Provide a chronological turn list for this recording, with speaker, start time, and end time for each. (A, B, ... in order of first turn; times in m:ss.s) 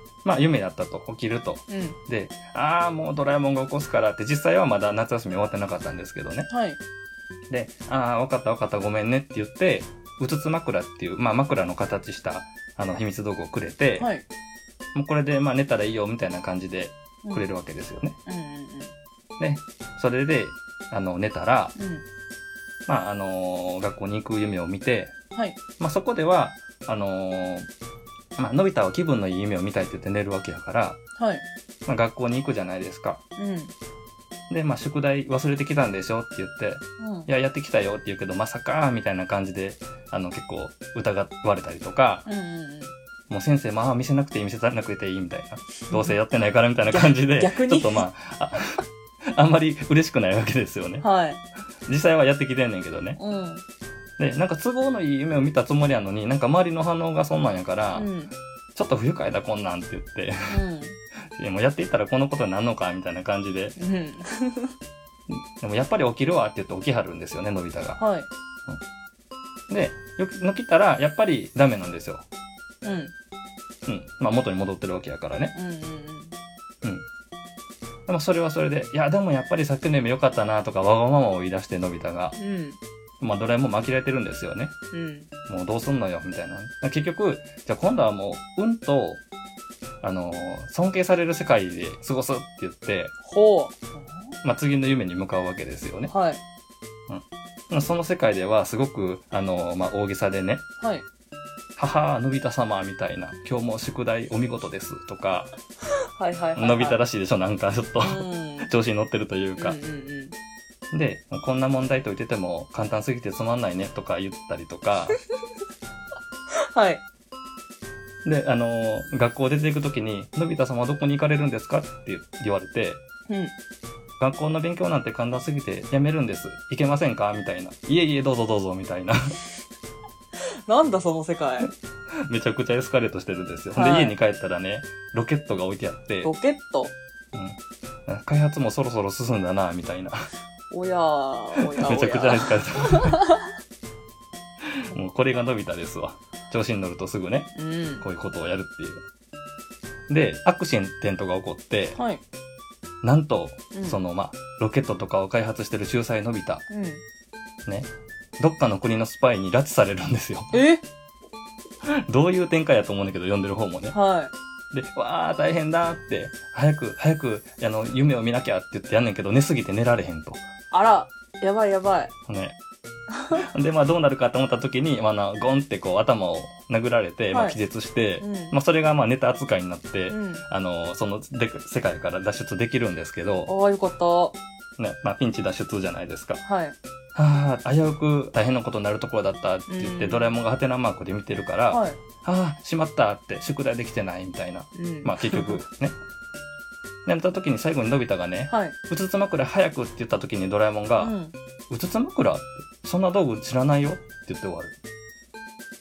0:00.2-0:06.5 A
0:01.7-0:02.0 B
0:06.5-0:06.8 B
0:07.5-0:14.1 A
0:14.0-0:14.2 B
0:14.9-0:18.2 A
0:18.2-0:18.9 B
0:19.4-0:21.8 A
0:21.8-0:22.0 B
0:22.8-0:25.1 A
0:25.8-0:27.7 A
0:28.4-0:31.0 A
0:31.2-0:31.4 B
0:31.8-0:33.2 A
0:33.4-0:33.7 B
0:34.5-0:42.3 A
0:37.0-0:37.3 B
0:42.2-0:42.9 B
0:43.3-0:51.0 A
0:45.9-0:46.2 B
0:46.9-0:48.0 B
0:51.0-0:51.4 B
0:51.9-0:53.2 A
0:53.2-0:53.6 B
0:54.2-0:58.1 A
0:57.9-0:58.3 B
0:58.7-1:00.6 A
1:00.5-1:01.0 B
1:01.3-1:03.8 A
1:03.8-1:04.7 B
1:05.3-1:08.0 A
1:08.0-1:08.3 B
1:09.7-1:12.2 A
1:12.8-1:13.1 B
1:13.8-1:15.5 A
1:15.5-1:16.4 B
1:18.1-1:22.4 A
1:22.4-1:22.8 B
1:23.2-1:24.7 A
1:24.9-1:25.3 B
1:25.5-1:29.2 A
1:30.0-1:33.1 A
1:33.2-1:34.1 B
1:34.4-1:36.1 A
1:36.1-1:36.4 B
1:37.1-1:40.6 A
1:41.8-1:45.5 A
1:46.2-1:47.0 B
1:46.5-1:49.8 A
1:48.0-1:48.7 B
1:49.6-1:50.3 B
1:50.9-1:55.2 A
1:56.5-1:57.0 B
1:58.2-2:03.0 A
2:03.3-2:03.5 B
2:04.2-2:09.3 A
2:10.7-2:11.7 B
2:12.3-2:16.3 A
2:13.7-2:14.1 B
2:16.2-2:16.9 B
2:17.3-2:20.3 A
2:20.7-2:23.5 B
2:21.6-2:23.2 A
2:24.7-2:29.0 A
2:27.5-2:28.0 B
2:30.1-2:32.0 A
2:32.0-2:32.2 B
2:33.0-2:36.6 A
2:36.7-2:37.0 B
2:37.6-2:40.5 A
2:40.5-2:40.8 B
2:41.8-2:44.0 A
2:43.9-2:44.3 B
2:44.7-2:50.4 A
2:50.7-2:52.1 B
2:52.3-2:52.6 A
2:53.1-2:53.4 B
2:53.3-3:03.5 A
2:57.3-2:57.6 B
2:58.2-2:58.6 B
3:00.1-3:00.4 B
3:03.5-3:04.4 B
3:04.8-3:06.4 A
3:06.4-3:06.7 B
3:07.1-3:16.0 A
3:09.7-3:10.3 B
3:11.7-3:12.0 B
3:14.7-3:15.5 B
3:17.0-3:21.1 A
3:18.5-3:18.8 B
3:21.0-3:21.3 B
3:21.7-3:24.8 A